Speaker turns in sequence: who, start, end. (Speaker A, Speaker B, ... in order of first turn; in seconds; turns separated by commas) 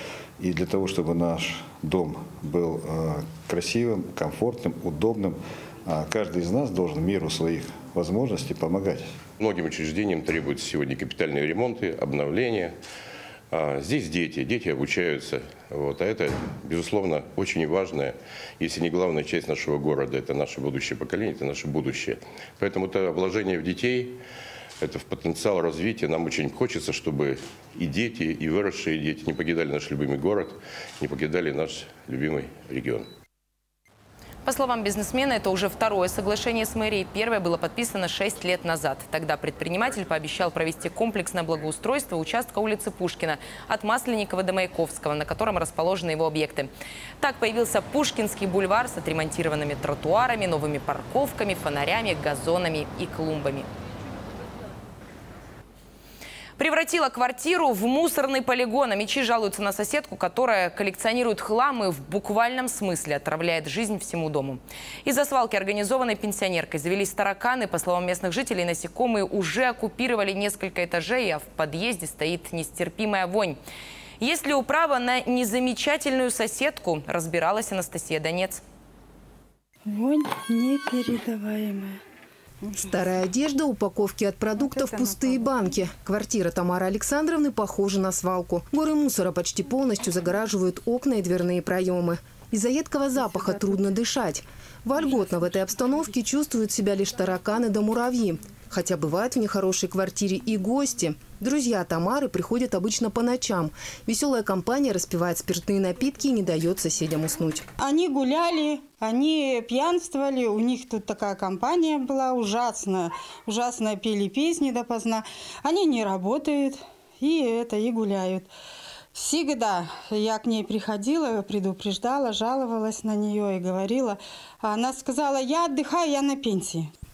Speaker A: 0.4-9.1, Speaker B: 9.4-12.8, Speaker B: 13.5-24.2, Speaker B: 24.8-33.1, Speaker C: 34.4-46.7, Speaker C: 47.2-53.7, Speaker C: 56.6-73.6, Speaker C: 74.2-78.6, Speaker D: 79.9-82.0, Speaker E: 82.7-107.7, Speaker D: 84.8-85.2, Speaker D: 107.8-118.5, Speaker D: 119.1-126.9